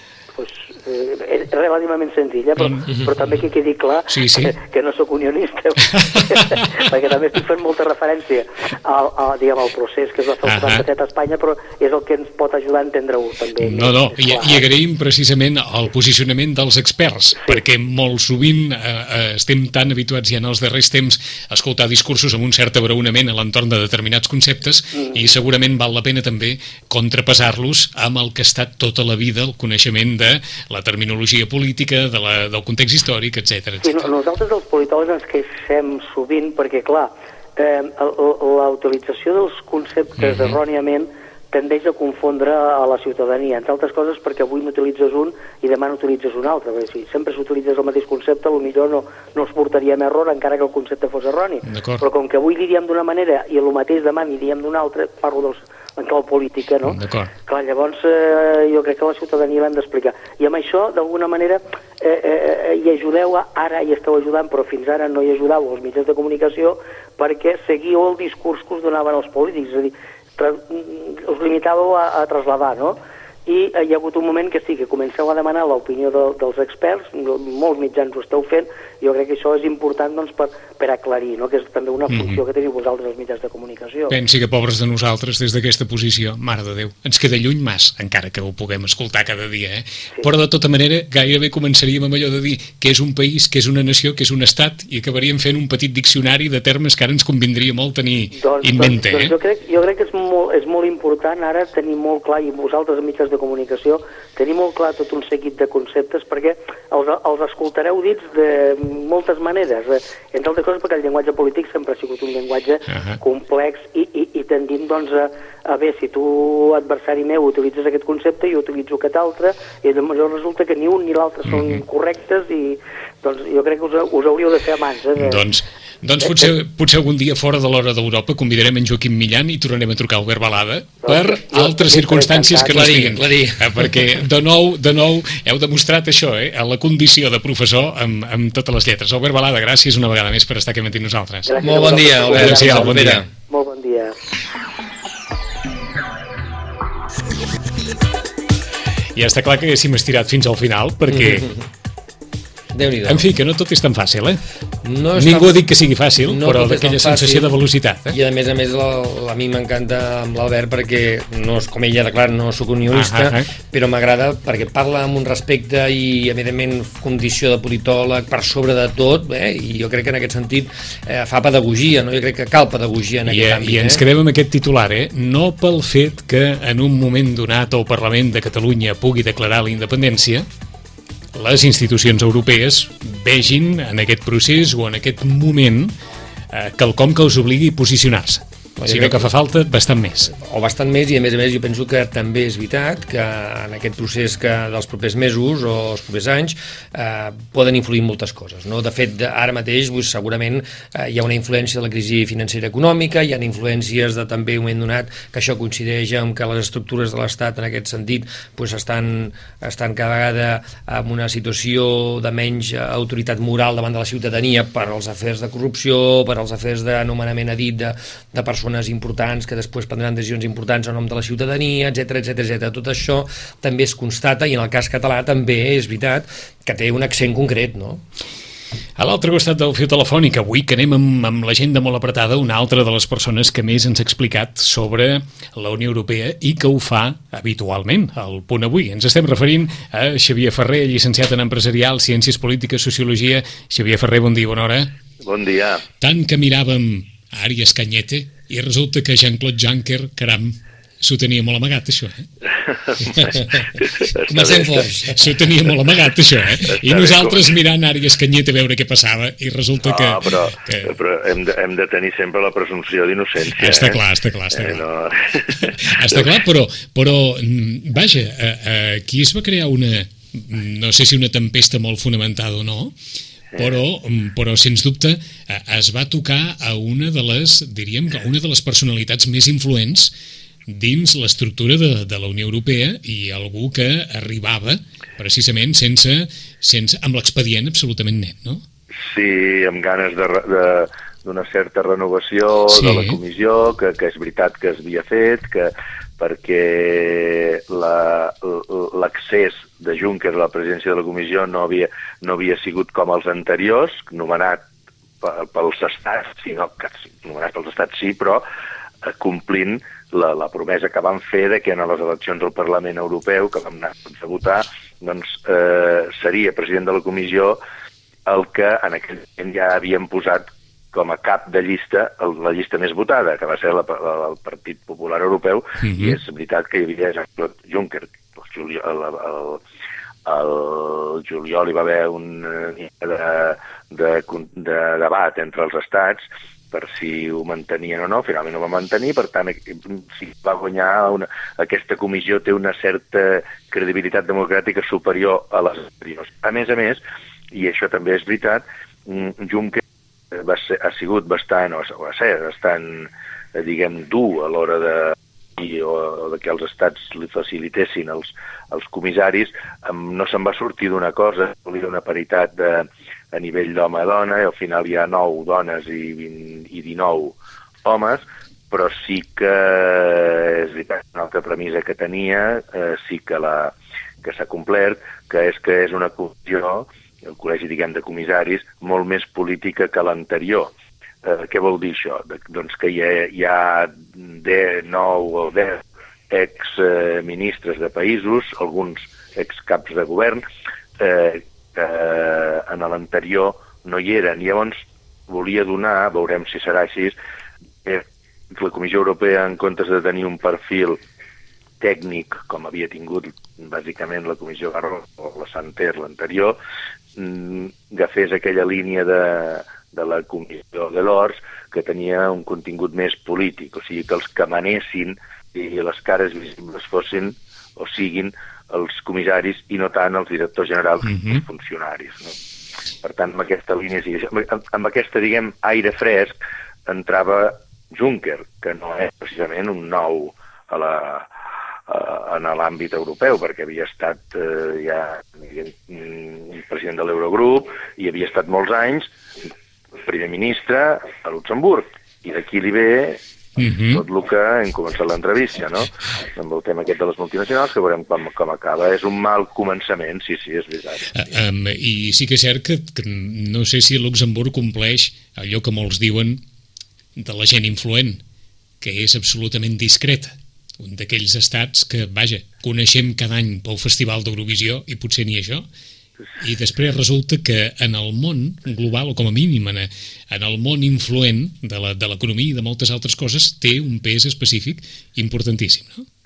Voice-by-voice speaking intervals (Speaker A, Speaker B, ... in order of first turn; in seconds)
Speaker A: 0.4-14.6, 33.8-84.2, 98.3-125.4, 126.2-126.5, 131.0-133.0, 141.5-144.2
Speaker B: 4.1-4.5, 6.2-6.5, 10.4-10.8, 13.6-34.0, 40.2-40.6, 51.7-52.0, 56.8-57.3, 82.1-82.4, 84.1-99.3, 112.9-113.2, 121.5-121.8, 125.2-141.5, 142.2-143.2, 149.1-151.4, 153.1-154.4, 155.2-158.2, 162.9-163.4, 173.3-180.4, 181.3-185.9, 186.5-190.3, 229.0-244.9, 246.0-252.2, 255.1-260.9, 263.5-264.8, 265.6-272.9, 273.6-280.1, 280.7-288.6, 292.7-293.2, 325.8-326.2, 443.6-444.0, 451.1-456.4, 457.1-458.2, 458.8-465.6, 466.4-476.0
Speaker C: 132.7-134.0, 141.6-143.3, 151.1-151.7, 152.7-153.2, 154.8-155.6, 156.2-157.5, 158.1-174.0, 188.8-189.3, 190.3-228.0, 254.2-255.2
Speaker D: 245.2-245.8, 252.5-255.1, 256.6-257.5, 259.8-264.0, 264.5-266.3, 273.5-273.8, 289.0-304.6, 305.2-308.4, 309.0-317.6, 318.2-329.6, 330.2-380.7, 381.2-390.4, 391.0-397.1, 397.8-401.0, 401.8-406.6, 407.1-422.4, 423.0-431.3, 431.9-439.1, 440.0-451.1